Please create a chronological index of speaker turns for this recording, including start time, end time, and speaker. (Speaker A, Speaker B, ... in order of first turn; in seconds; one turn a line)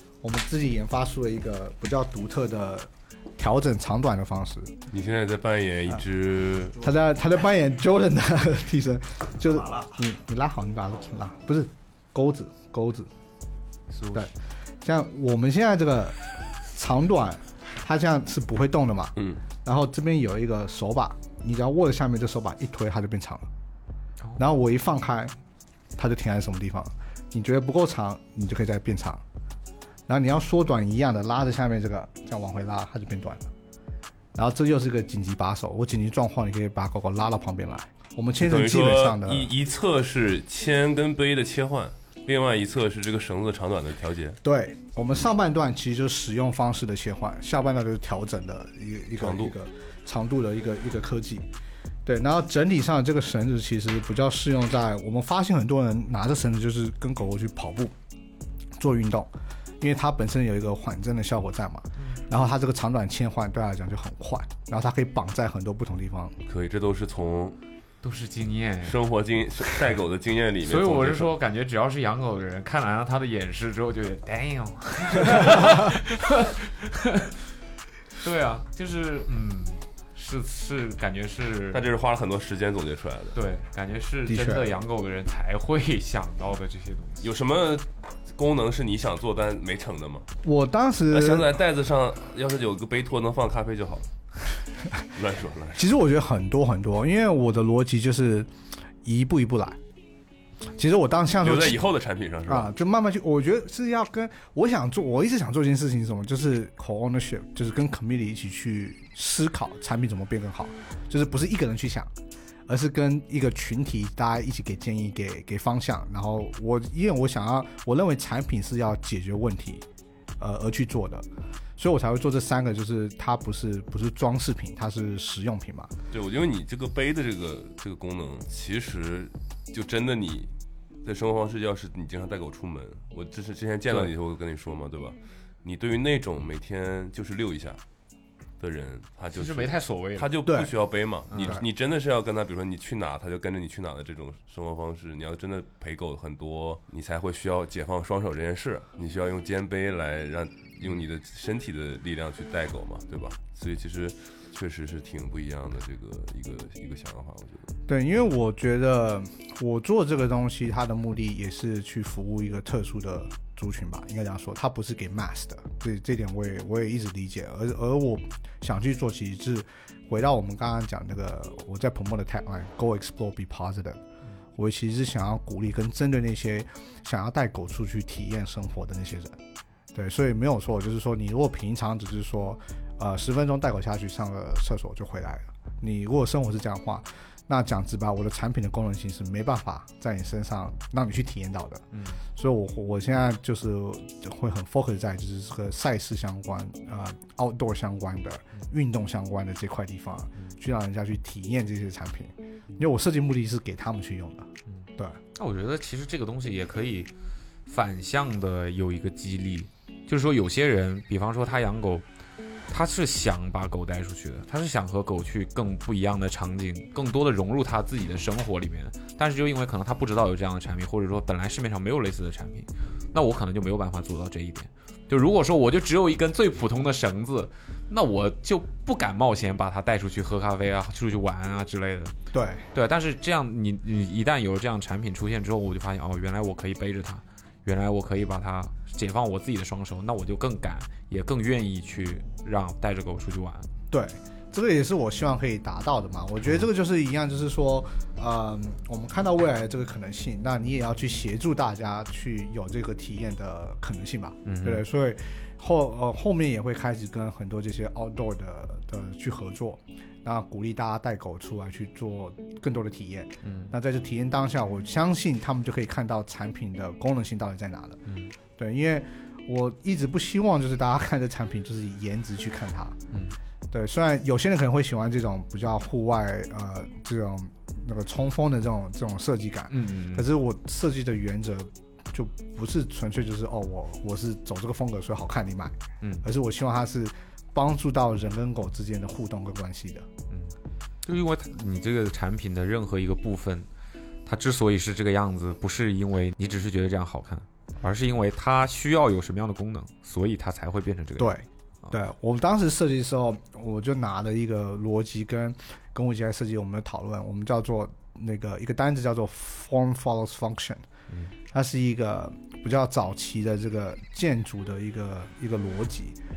Speaker A: 0.2-4.8
Speaker B: 4.9-6.8
Speaker A: 6.8-13.1
Speaker C: 13.9-14.3
Speaker A: 14.1-23.5
Speaker A: 24.4-25.4
Speaker A: 26.0-29.2
Speaker A: 30.1-33.5
Speaker A: 34.4-39.5
Speaker B: 38.4-44.4
Speaker A: 44.4-51.5
Speaker B: 49.2-49.5
Speaker A: 52.0-57.9
Speaker A: 58.8-66.4
Speaker C: 62.0-62.2
Speaker B: 66.5-67.6
Speaker C: 68.0-69.0
Speaker B: 68.8-71.3
Speaker C: 70.6-77.3
Speaker C: 78.2-81.8
Speaker B: 81.7-83.4
Speaker C: 83.3-87.3
Speaker A: 84.3-84.7
Speaker B: 87.2-90.3
Speaker A: 90.4-91.6
Speaker B: 91.1-94.1
Speaker B: 95.0-95.9
Speaker A: 95.8-98.5
Speaker A: 99.0-99.8
Speaker A: 100.6-101.8
Speaker B: 101.4-102.7
Speaker A: 102.5-112.1
Speaker A: 112.7-119.9
Speaker A: 120.4-125.9
Speaker B: 126.1-130.5
Speaker B: 131.0-137.8
Speaker B: 138.6-157.7
Speaker C: 139.3-140.3
Speaker A: 140.4-140.7
Speaker C: 141.3-141.6
Speaker A: 157.9-174.0
Speaker A: 174.6-179.4
Speaker A: 179.9-205.2
Speaker C: 191.9-192.2
Speaker C: 204.7-207.1
Speaker C: 207.7-212.1
Speaker C: 212.7-232.2
Speaker A: 232.3-232.7
Speaker C: 232.7-243.7
Speaker A: 243.9-268.0
Speaker C: 254.4-254.8
Speaker C: 263.4-263.7
Speaker C: 268.1-268.3
Speaker A: 268.6-273.0
Speaker C: 273.1-273.4
Speaker A: 273.7-290.1
Speaker C: 279.7-280.3
Speaker C: 286.0-286.3
Speaker C: 290.3-293.7
Speaker C: 294.3-302.0
Speaker A: 301.2-310.8
Speaker A: 311.5-316.2